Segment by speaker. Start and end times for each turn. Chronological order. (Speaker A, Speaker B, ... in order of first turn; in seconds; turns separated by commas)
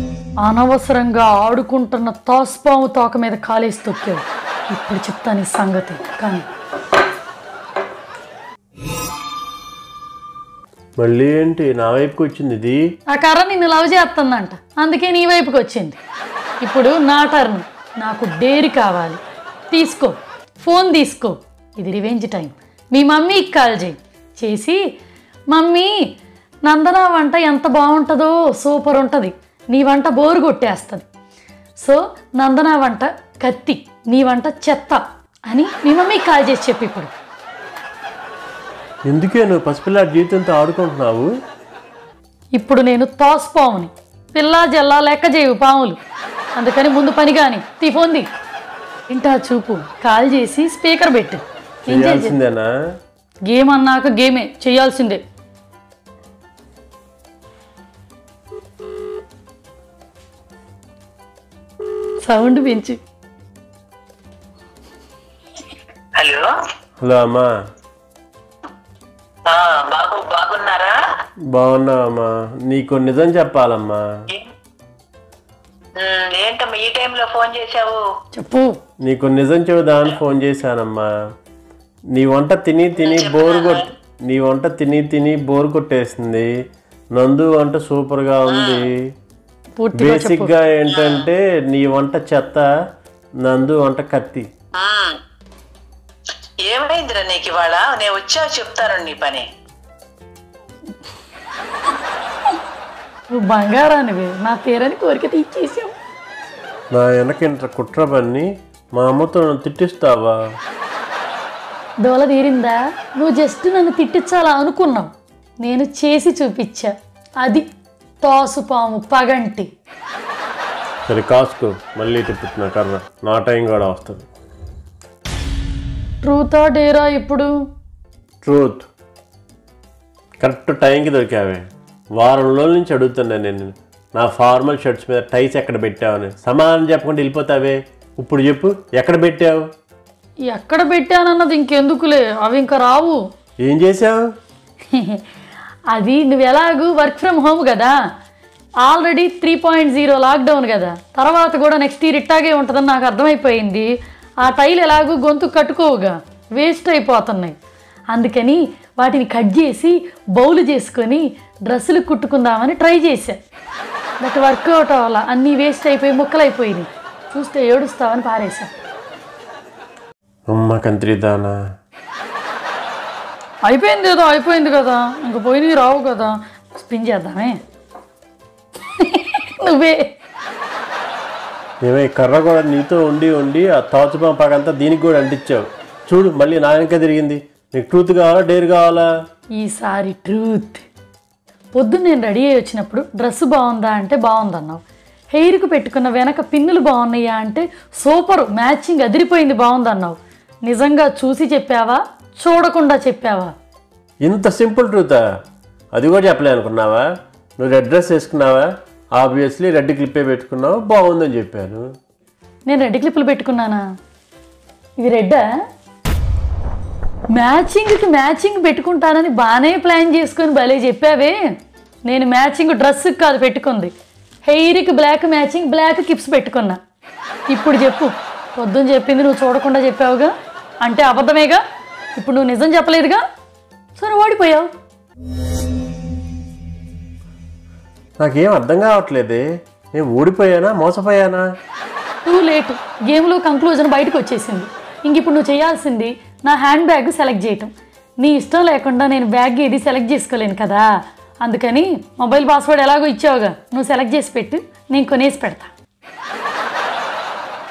Speaker A: 0.4-6.5, Speaker B: 11.0-12.8, Speaker A: 13.1-16.0, Speaker A: 16.6-19.2, Speaker A: 19.7-24.8, Speaker A: 25.5-25.9, Speaker A: 26.6-31.1, Speaker A: 31.8-37.1, Speaker B: 39.0-41.3, Speaker A: 42.5-46.0, Speaker A: 46.5-48.2, Speaker A: 49.1-52.3, Speaker B: 51.9-52.7, Speaker A: 53.5-55.2, Speaker A: 62.2-63.0, Speaker C: 66.2-66.5, Speaker B: 67.0-67.5, Speaker C: 69.5-70.9, Speaker B: 71.5-74.0, Speaker C: 76.0-78.0, Speaker A: 78.3-78.8, Speaker B: 79.0-81.1, Speaker B: 82.1-86.5, Speaker C: 83.0-83.8, Speaker B: 87.2-89.0, Speaker C: 88.5-88.8, Speaker A: 89.8-90.5, Speaker B: 90.0-92.7, Speaker C: 90.9-91.2, Speaker B: 93.4-94.5, Speaker C: 94.8-95.2, Speaker C: 96.7-99.5, Speaker A: 103.3-105.9, Speaker B: 106.9-110.4, Speaker A: 112.0-117.7, Speaker A: 118.2-119.7, Speaker B: 121.1-124.2, Speaker A: 126.2-127.5, Speaker B: 128.4-128.9, Speaker B: 130.4-131.6, Speaker B: 132.2-139.6, Speaker A: 140.5-143.2, Speaker B: 143.6-144.2, Speaker A: 144.9-145.2, Speaker A: 145.9-147.9, Speaker A: 148.8-153.9, Speaker A: 154.4-157.5, Speaker A: 158.1-163.4, Speaker A: 164.2-168.8, Speaker B: 170.5-171.6, Speaker A: 173.7-177.6, Speaker A: 178.9-180.1, Speaker B: 181.8-189.1, Speaker A: 189.6-190.8, Speaker A: 191.7-203.5, Speaker B: 204.2-205.2, Speaker B: 205.9-211.8, Speaker A: 212.7-213.8, Speaker A: 215.0-215.4, Speaker A: 217.3-221.3, Speaker A: 222.1-223.9, Speaker A: 224.4-226.8, Speaker A: 227.5-231.6, Speaker A: 232.1-233.2, Speaker A: 233.9-234.7, Speaker B: 238.2-239.4, Speaker B: 239.9-241.4, Speaker A: 242.2-250.9, Speaker A: 251.4-255.7